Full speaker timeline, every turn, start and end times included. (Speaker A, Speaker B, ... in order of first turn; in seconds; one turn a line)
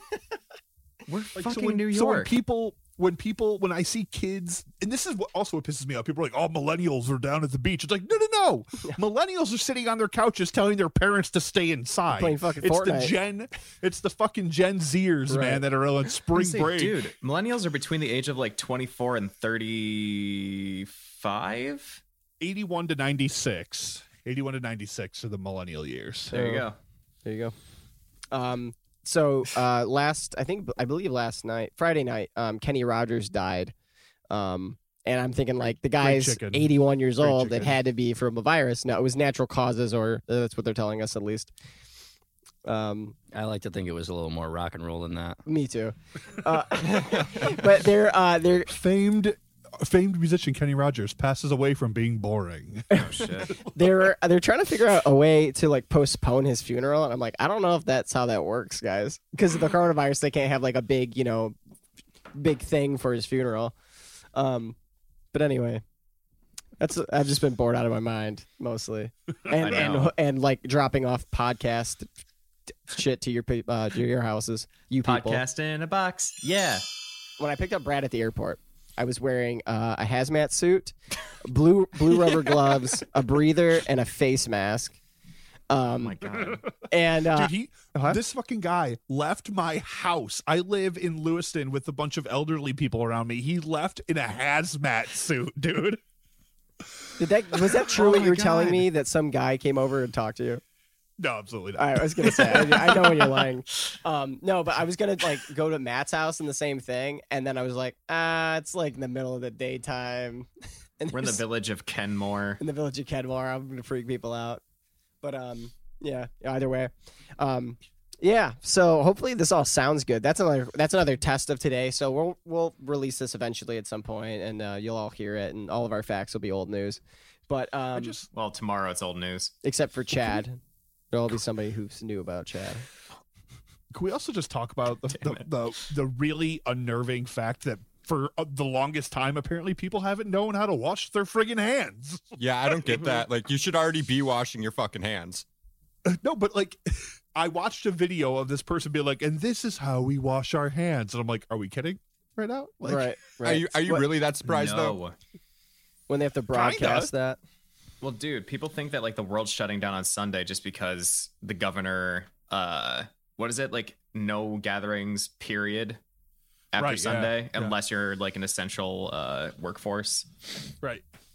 Speaker A: 1.1-2.3
Speaker B: 1.4-17.1
Speaker C: 12.1-13.1
Speaker C: 15.3-15.6
Speaker A: 16.3-22.0
Speaker B: 22.4-26.3
Speaker A: 26.3-26.8
Speaker C: 26.3-26.6
Speaker C: 27.2-27.5
Speaker C: 28.3-33.7
Speaker C: 34.3-41.5
Speaker B: 36.0-37.8
Speaker C: 42.6-43.1
Speaker D: 43.3-45.4
Speaker C: 45.5-48.7
Speaker B: 48.7-53.7
Speaker A: 52.9-53.6
Speaker C: 53.6-61.5
Speaker C: 62.3-63.7
Speaker C: 64.3-64.8
Speaker C: 65.3-65.8
Speaker C: 66.8-72.1
Speaker A: 69.6-70.1
Speaker C: 72.9-75.4
Speaker A: 75.0-76.8
Speaker C: 77.4-80.9
Speaker C: 81.4-85.0
Speaker C: 85.7-86.2
Speaker A: 86.0-86.7
Speaker B: 86.3-86.7
Speaker C: 86.9-88.2
Speaker B: 87.2-96.0
Speaker C: 97.2-100.6
Speaker B: 97.8-98.8
Speaker A: 98.0-98.7
Speaker B: 101.2-103.5
Speaker C: 101.8-110.5
Speaker C: 111.0-111.4
Speaker A: 111.1-112.6
Speaker C: 112.6-114.6
Speaker C: 115.2-128.2
Speaker B: 127.9-128.3
Speaker A: 128.3-129.5
Speaker C: 129.6-130.6
Speaker C: 131.1-132.8
Speaker B: 133.9-142.4
Speaker A: 135.1-135.4
Speaker E: 142.4-145.4
Speaker B: 146.0-153.1
Speaker C: 152.8-154.0
Speaker E: 153.4-155.0
Speaker A: 154.5-155.2
Speaker C: 156.1-157.4
Speaker B: 156.5-157.1
Speaker A: 158.0-166.0
Speaker A: 166.7-170.3
Speaker B: 166.8-167.8